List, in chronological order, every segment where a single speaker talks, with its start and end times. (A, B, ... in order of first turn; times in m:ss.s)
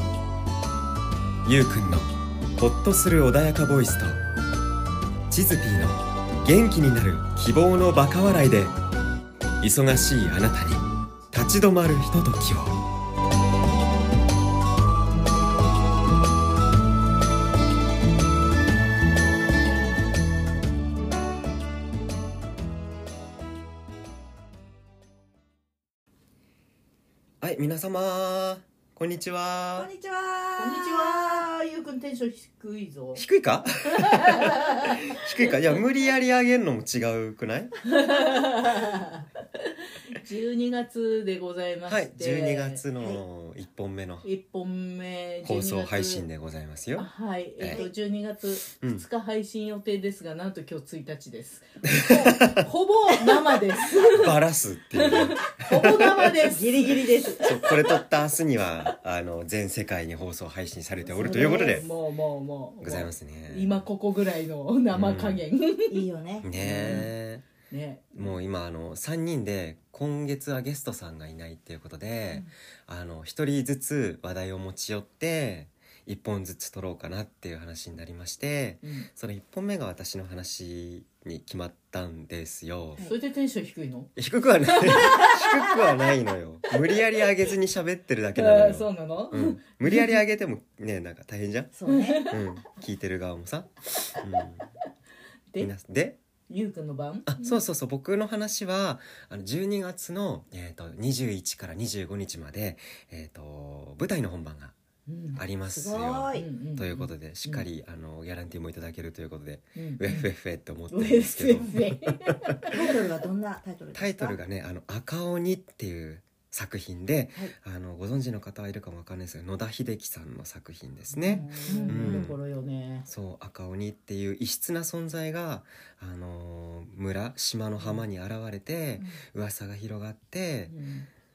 0:01.4-0:04.2 A
0:05.3-0:08.8 A
0:09.6-0:12.8 A
0:27.4-0:29.9 A
0:29.7-0:31.5 B
0:30.6-0:33.2 C
0:33.2-0:37.7 A
0:33.8-0:35.1 C
0:37.8-0:42.8 C
0:41.9-0:44.3 A
0:44.2-0:46.3 C
0:45.4-0:47.8 A
0:47.0-0:54.4 C
0:48.8-0:49.0 A
0:52.0-0:52.7 A
0:54.0-0:56.3 A
0:54.9-0:58.0 C
0:56.5-0:57.6 B
0:57.4-1:01.8 A
1:01.0-1:07.1 C
1:01.2-1:01.8 B
1:02.8-1:03.8 A
1:04.9-1:05.4 A
1:05.9-1:07.0 B
1:06.4-1:07.4 A
1:07.7-1:08.1 C
1:08.1-1:23.0 A
1:18.8-1:19.1 C
1:22.9-1:23.2 B
1:23.0-1:24.1 C
1:24.2-1:31.7 A
1:24.6-1:25.7 C
1:25.0-1:25.3 B
1:28.3-1:30.2 C
1:31.7-1:32.3 B
1:31.8-1:32.4 C
1:32.3-1:34.7 A
1:35.6-1:36.2 A
1:36.5-1:37.5 C
1:37.3-1:44.7 A
1:45.1-1:45.4 C
1:45.3-1:52.1 A
1:45.7-1:46.5 B
1:46.3-1:47.6 C
1:49.8-1:50.3 C
1:50.9-1:53.0 C
1:52.7-1:54.4 B
1:53.9-2:02.4 A
2:01.1-2:03.1 C
2:01.3-2:02.3 B
2:03.1-2:10.7 A
2:07.8-2:08.0 C
2:10.7-2:11.1 C